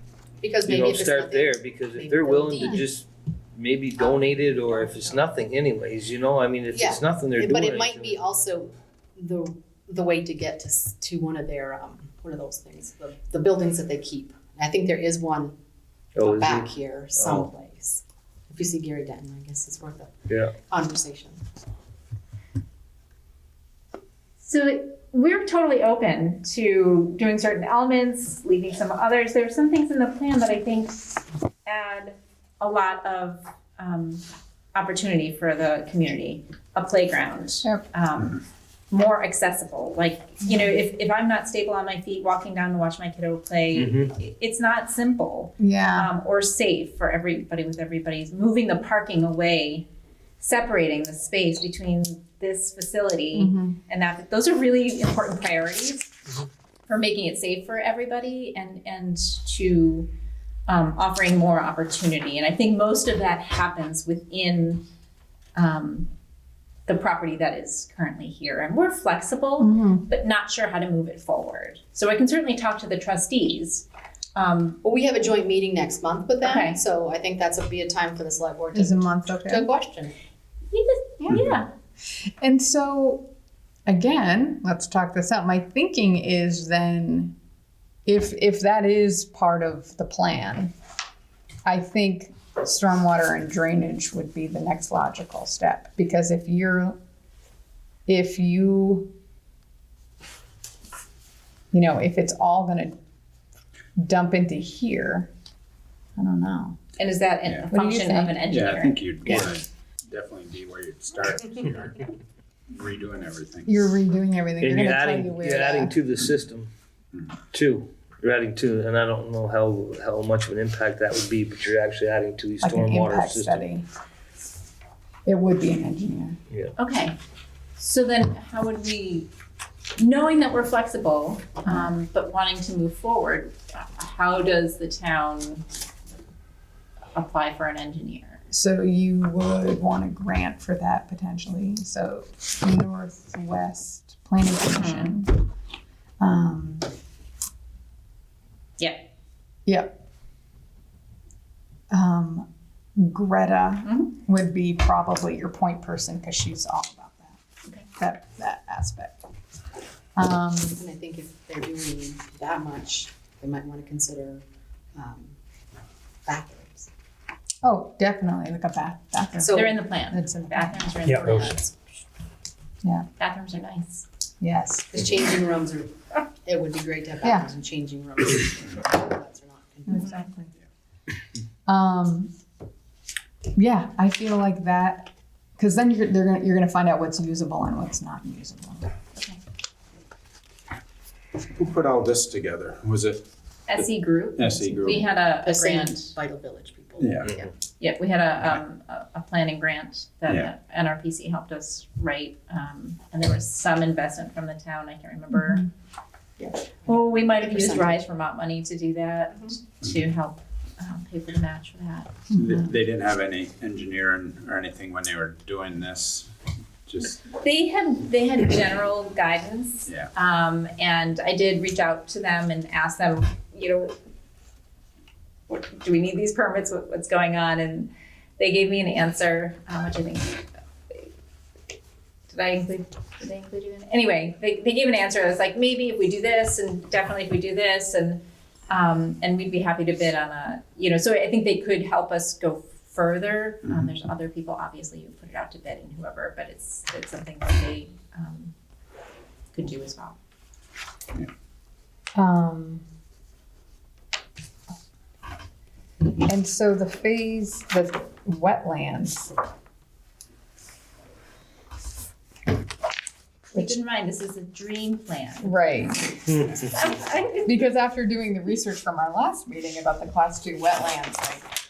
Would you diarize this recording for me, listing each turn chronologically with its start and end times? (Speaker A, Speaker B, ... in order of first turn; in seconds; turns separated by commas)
Speaker A: 0.4-2.8, Speaker B: 0.6-8.2, Speaker C: 2.6-2.9, Speaker A: 4.0-5.3, Speaker A: 6.7-15.6, Speaker B: 16.2-17.5, Speaker A: 16.2-20.1, Speaker B: 20.3-20.6, Speaker A: 20.7-21.4, Speaker D: 24.4-38.4, Speaker D: 38.9-49.9, Speaker B: 43.8-44.1, Speaker C: 45.6-46.1, Speaker D: 50.4-56.1, Speaker C: 53.3-53.8, Speaker D: 56.9-60.1, Speaker D: 60.7-64.8, Speaker D: 65.6-66.1, Speaker D: 66.9-74.8, Speaker C: 69.6-70.1, Speaker A: 74.8-80.1, Speaker D: 76.4-76.8, Speaker C: 78.7-79.7, Speaker D: 80.7-81.7, Speaker C: 82.2-83.2, Speaker C: 83.9-87.3, Speaker C: 88.0-90.7, Speaker C: 91.7-97.0, Speaker C: 98.1-99.1, Speaker C: 101.7-102.9, Speaker C: 104.0-105.3, Speaker C: 106.2-106.8, Speaker D: 107.0-109.4, Speaker C: 107.7-108.5, Speaker E: 108.5-112.2, Speaker E: 112.7-113.8, Speaker C: 113.7-116.0, Speaker B: 114.6-116.7, Speaker E: 117.1-117.4, Speaker B: 117.5-123.6, Speaker C: 122.6-123.8, Speaker C: 125.2-126.4, Speaker D: 126.8-127.2, Speaker D: 127.8-129.3, Speaker D: 130.0-135.7, Speaker C: 131.7-131.9, Speaker D: 137.2-138.4, Speaker C: 138.5-145.4, Speaker D: 144.7-145.2, Speaker C: 146.2-146.9, Speaker D: 148.8-149.0, Speaker C: 149.7-150.0, Speaker C: 151.9-157.4, Speaker D: 153.8-154.1, Speaker C: 158.0-159.2, Speaker C: 160.2-160.8, Speaker A: 160.8-164.4, Speaker A: 164.9-165.3, Speaker A: 166.3-166.9, Speaker C: 167.6-170.9, Speaker A: 169.4-169.7, Speaker D: 169.4-171.7, Speaker B: 171.1-171.5, Speaker D: 173.2-174.1, Speaker C: 174.4-175.0, Speaker A: 174.9-180.1, Speaker C: 177.2-177.5, Speaker C: 179.9-180.5, Speaker D: 179.9-180.3, Speaker C: 181.7-182.3, Speaker C: 183.6-188.9, Speaker D: 189.2-189.4, Speaker E: 191.6-195.2, Speaker D: 193.7-196.2, Speaker A: 195.4-197.5, Speaker E: 197.0-197.4, Speaker D: 197.8-205.7, Speaker E: 200.3-200.5, Speaker C: 205.3-205.7, Speaker A: 206.4-208.0, Speaker D: 206.9-212.4, Speaker E: 212.3-216.3, Speaker E: 216.9-217.2, Speaker D: 217.2-223.9, Speaker D: 225.5-230.4, Speaker D: 232.3-248.5, Speaker D: 249.5-250.2, Speaker C: 252.2-252.8, Speaker C: 256.2-259.3, Speaker D: 263.5-267.7, Speaker C: 265.4-266.1, Speaker C: 267.5-271.5